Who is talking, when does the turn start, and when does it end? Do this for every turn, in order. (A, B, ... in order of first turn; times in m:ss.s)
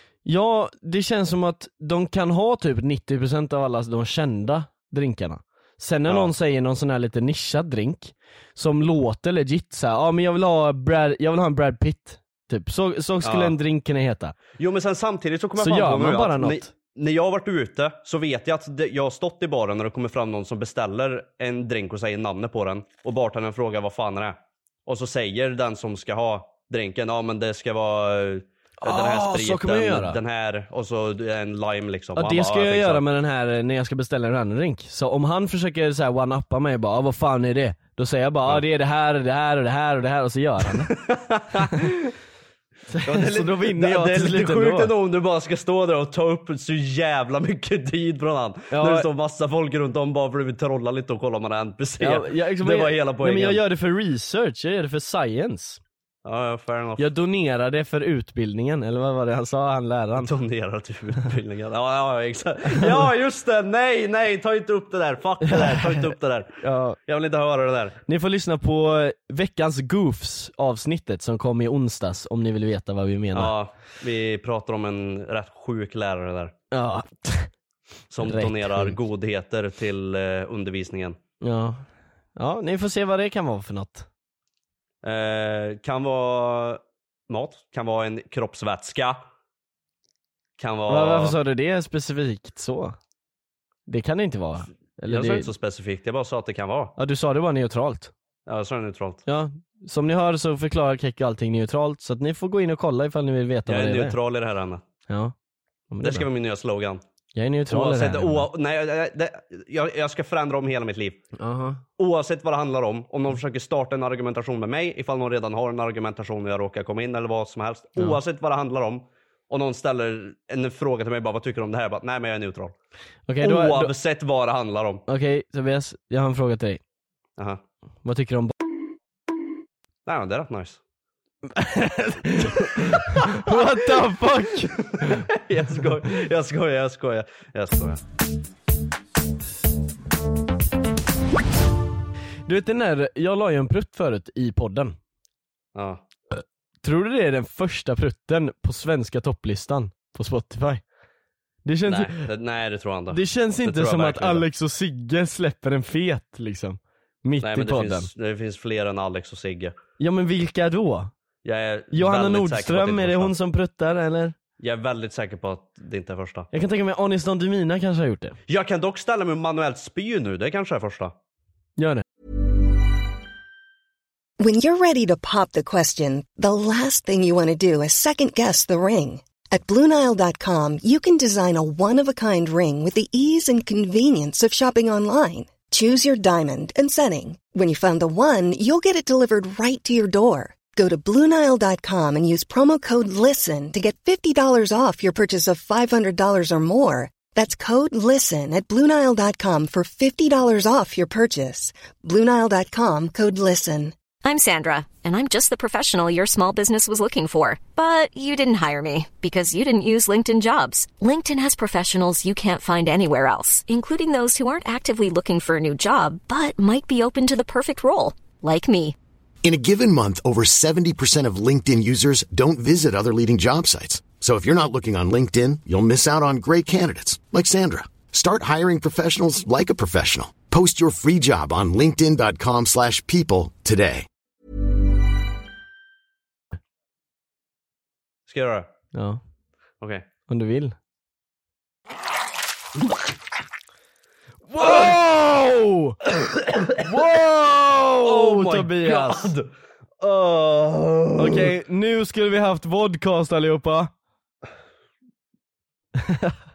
0:00.2-0:14.4 A
0:06.1-0:06.3 B
0:13.2-0:13.6 B
0:14.6-0:33.0 B
0:15.6-0:16.7 A
0:28.8-0:30.2 A
0:32.2-0:40.9 A
0:40.9-0:42.1 B
0:42.9-0:44.9 A
0:43.0-0:53.6 B
0:48.7-0:49.1 A
0:52.0-0:55.8 A
0:56.2-0:57.1 B
0:57.0-1:00.3 A
1:00.2-1:08.0 B
1:05.4-1:07.0 A
1:08.1-1:13.5 A
1:13.3-1:16.5 B
1:16.7-1:17.5 A
1:18.1-1:21.2 B
1:18.2-1:19.0 A
1:21.4-1:24.1 A
1:25.0-1:29.2 B
1:30.6-1:31.4 B
1:30.9-1:33.0 A
1:33.9-1:35.5 A
1:35.1-1:36.9 B
1:37.0-1:38.1 A
1:38.5-1:39.2 B
1:39.3-1:44.2 A
1:43.7-1:44.8 B
1:45.1-1:45.3 A
1:45.9-1:46.3 A
1:46.0-1:47.0 B
1:47.4-1:48.5 A
1:47.7-1:51.2 B
1:51.4-1:51.8 A
1:52.0-2:02.7 B
2:03.3-2:03.9 A
2:03.4-2:05.0 B
2:05.1-2:06.8 A
2:08.0-2:08.6 A
2:10.1-2:10.8 B
2:11.5-2:15.2 A
2:13.3-2:13.6 B
2:14.7-2:18.0 B
2:22.5-2:25.0 A
2:25.8-2:26.0 B
2:26.8-2:30.8 A
2:31.6-2:32.2 A
2:31.9-2:34.5 B
2:33.1-2:38.1 A
2:37.4-2:39.8 B
2:40.0-2:41.1 A
2:41.4-2:43.3 B
2:41.9-2:44.4 A
2:44.6-2:46.5 B
2:46.5-2:48.4 A
2:48.5-2:51.1 B
2:51.8-2:52.0 A
2:54.4-3:24.0 C
3:24.2-3:39.0 D
3:39.4-3:54.1 E
3:58.3-3:58.7 B
3:58.9-3:59.2 A
4:00.3-4:00.8 A
4:04.5-4:06.0 A
4:04.6-4:04.9 B
4:06.4-4:06.8 B
4:06.8-4:09.3 A
4:08.0-4:09.5 B
4:10.0-4:11.5 B
4:11.2-4:13.9 A
4:16.0-4:16.4 A